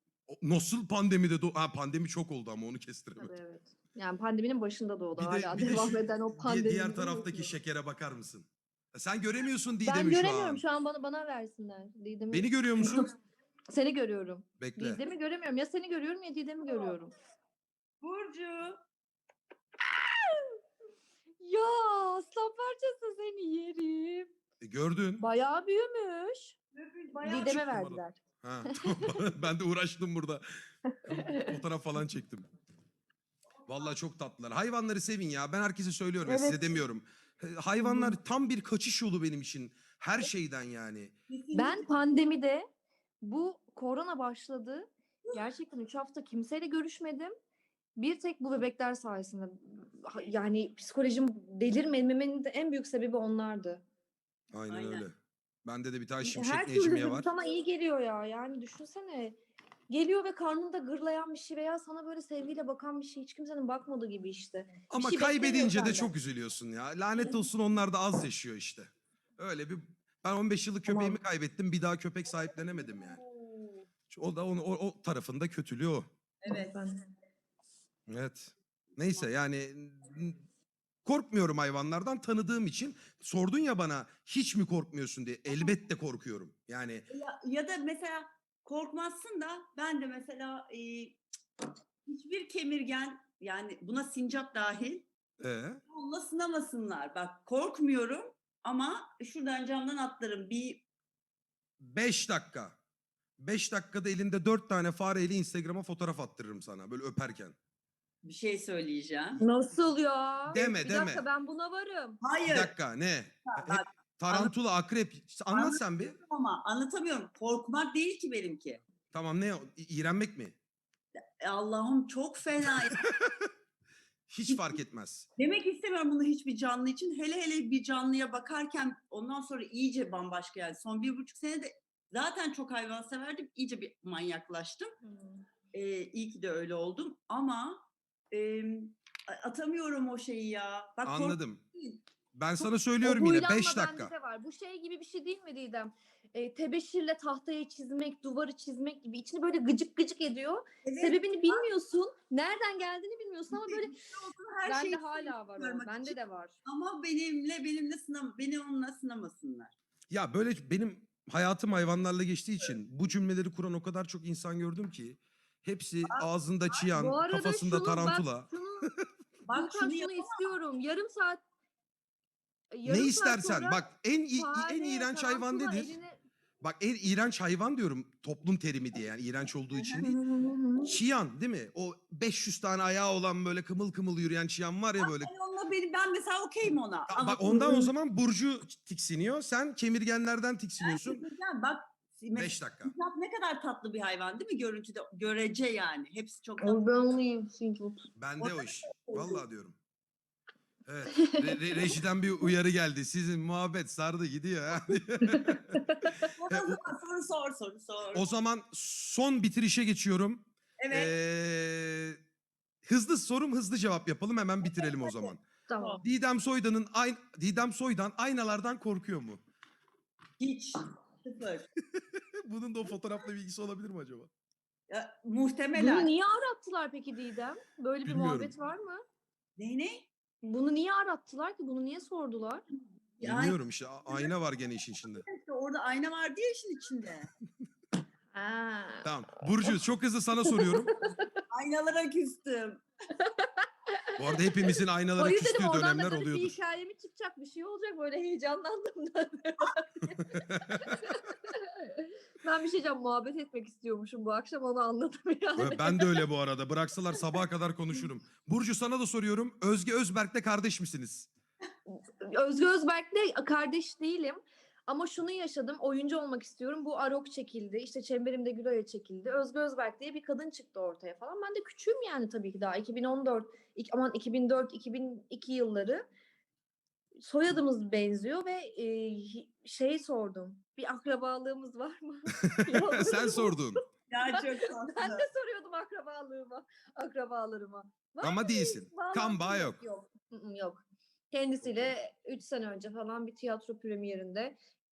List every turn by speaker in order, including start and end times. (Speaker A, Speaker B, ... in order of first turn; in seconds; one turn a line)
Speaker A: 0.3-3.3
Speaker B: 3.2-7.6
Speaker A: 5.1-10.6
Speaker B: 9.8-13.1
Speaker A: 12.3-13.1
Speaker B: 13.7-17.1
Speaker A: 14.6-15.0
Speaker C: 18.0-18.8
Speaker B: 19.9-20.5
Speaker B: 21.4-24.3
Speaker A: 24.6-25.2
Speaker B: 25.2-26.6
Speaker C: 26.7-27.7
Speaker B: 27.2-28.2
Speaker A: 27.3-32.5
Speaker B: 28.7-29.2
Speaker B: 30.9-31.6
Speaker C: 33.7-33.9
Speaker A: 33.7-41.1
Speaker B: 36.2-36.8
Speaker B: 37.8-38.2
Speaker C: 41.3-42.0
Speaker B: 41.5-42.6
Speaker B: 43.2-47.3
Speaker B: 48.0-53.8
Speaker A: 54.5-55.1
Speaker C: 54.7-55.0
Speaker A: 55.6-57.3
Speaker B: 56.2-59.4
Speaker B: 59.9-66.1
Speaker A: 64.9-73.2
Speaker B: 70.9-71.2
Speaker C: 72.3-73.9
Speaker A: 74.1-76.1
Speaker C: 76.4-76.8
Speaker B: 76.5-77.0
Speaker A: 78.1-80.4
Speaker C: 79.0-79.3
Speaker A: 81.0-87.0
Speaker C: 87.1-91.2
Speaker C: 92.0-95.0
Speaker A: 95.4-95.8
Speaker C: 95.9-100.8
Speaker A: 101.8-102.8
Speaker A: 103.4-107.5
Speaker C: 108.2-109.4
Speaker B: 109.4-112.2
Speaker A: 110.5-111.2
Speaker C: 112.2-112.7
Speaker A: 112.5-116.2
Speaker C: 113.5-114.5
Speaker C: 115.5-118.8
Speaker A: 119.1-120.5
Speaker C: 121.4-123.0
Speaker A: 123.0-123.3
Speaker A: 124.3-125.3
Speaker C: 125.4-134.9
Speaker B: 135.0-135.4
Speaker C: 135.7-142.0
Speaker A: 141.0-141.6
Speaker A: 142.3-144.1
Speaker B: 143.0-154.0
Speaker C: 150.8-151.7
Speaker C: 153.5-159.7
Speaker B: 154.6-156.6
Speaker A: 160.1-168.5
Speaker C: 166.1-166.9
Speaker B: 166.9-168.9
Speaker C: 169.4-170.4
Speaker B: 169.5-171.4
Speaker B: 172.7-173.8
Speaker A: 172.8-176.0
Speaker B: 174.4-176.2
Speaker A: 176.6-180.2
Speaker C: 179.7-180.5
Speaker B: 180.0-181.0
Speaker A: 180.8-185.3
Speaker C: 185.0-187.9
Speaker A: 187.1-191.2
Speaker C: 190.8-196.8
Speaker A: 192.3-192.9
Speaker B: 196.6-198.1
Speaker A: 198.2-199.8
Speaker C: 198.4-199.4
Speaker A: 200.8-206.8
Speaker B: 201.1-201.6
Speaker B: 205.2-206.3
Speaker C: 206.3-208.2
Speaker A: 208.1-212.2
Speaker C: 210.8-211.1
Speaker A: 212.8-215.4
Speaker C: 214.6-216.0
Speaker B: 215.7-216.0
Speaker A: 216.0-219.4
Speaker C: 220.4-221.7
Speaker A: 221.9-224.3
Speaker C: 224.9-226.1
Speaker B: 225.8-229.0
Speaker A: 228.0-228.5
Speaker C: 229.6-230.1
Speaker B: 230.4-232.6
Speaker C: 233.2-234.3
Speaker A: 233.2-235.2
Speaker C: 235.0-237.3
Speaker B: 238.3-239.1
Speaker A: 239.0-240.9
Speaker B: 240.4-241.3
Speaker C: 241.5-242.8
Speaker B: 243.2-244.6
Speaker A: 244.2-246.6
Speaker B: 245.2-256.2
Speaker A: 250.1-251.0
Speaker A: 255.6-261.3
Speaker B: 261.9-276.0
Speaker B: 277.2-283.8
Speaker A: 282.5-283.8
Speaker C: 284.1-285.3
Speaker B: 284.3-294.6
Speaker A: 288.2-289.8
Speaker A: 291.6-291.9